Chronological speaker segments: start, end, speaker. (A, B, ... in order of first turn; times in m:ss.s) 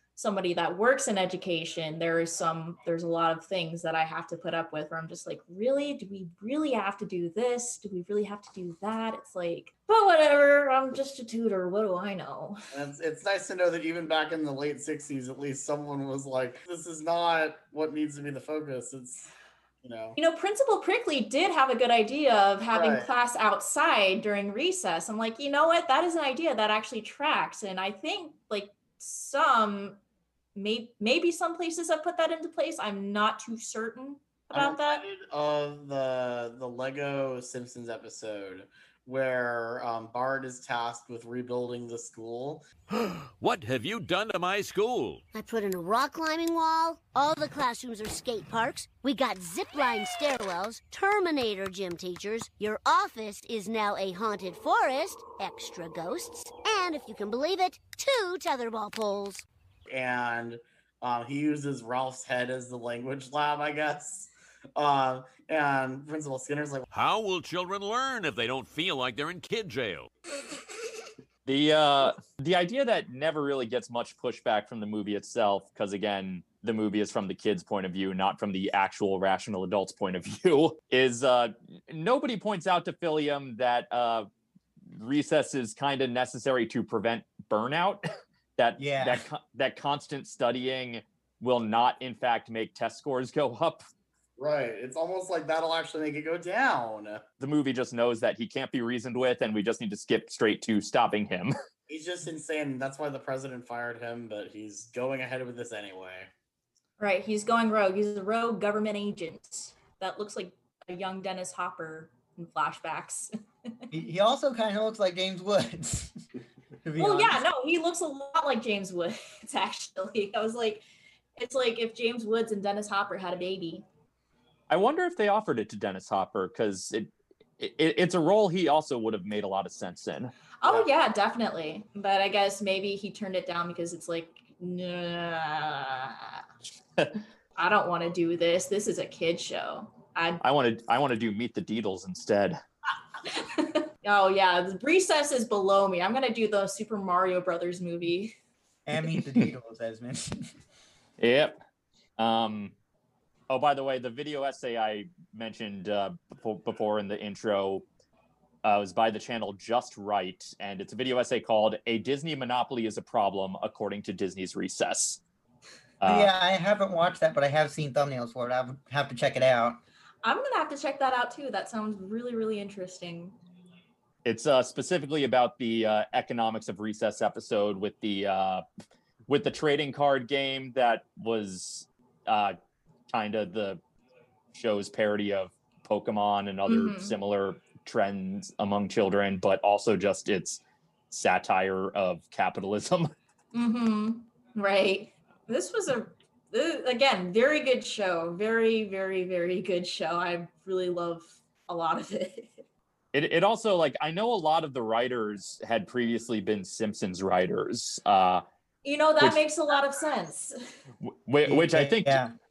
0:00.2-0:12.6 A
0:12.7-0:19.3 B
0:19.8-0:20.2 B
0:20.2-0:30.0 A
0:22.7-0:23.1 B
0:30.6-0:35.0 A
0:34.5-0:42.7 B
0:43.0-0:45.2 C
0:45.3-0:59.4 D
0:59.9-1:06.9 B
1:06.9-1:10.1 C
1:11.5-1:24.3 E
1:24.9-1:28.0 E
1:28.6-1:33.8 E
1:28.8-1:29.2 F
1:34.4-1:37.2 B
1:37.4-1:41.5 E
1:41.9-1:46.3 B
1:47.0-1:53.3 A
1:53.9-1:56.2 F
1:56.8-1:57.4 F
1:57.0-2:00.8 A
2:01.4-2:03.8 A
2:04.7-2:10.3 E
2:10.6-2:16.4 A
2:17.6-2:20.4 A
2:20.4-2:22.6 E
2:23.3-2:28.4 A
2:28.9-2:30.5 F
2:31.2-2:31.6 E
2:32.2-2:32.7 E
2:33.5-2:37.8 E
2:38.6-2:45.2 E
2:46.0-2:46.3 E
2:46.0-2:49.8 F
2:50.2-2:53.4 A
2:54.2-2:58.6 E
2:59.3-3:02.6 E
3:03.1-3:03.8 E
3:04.5-3:13.1 E
3:06.7-3:07.2 A
3:13.5-3:22.6 A
3:23.1-3:28.4 E
3:28.8-3:30.7 A
3:31.1-3:32.2 E
3:31.4-3:32.3 F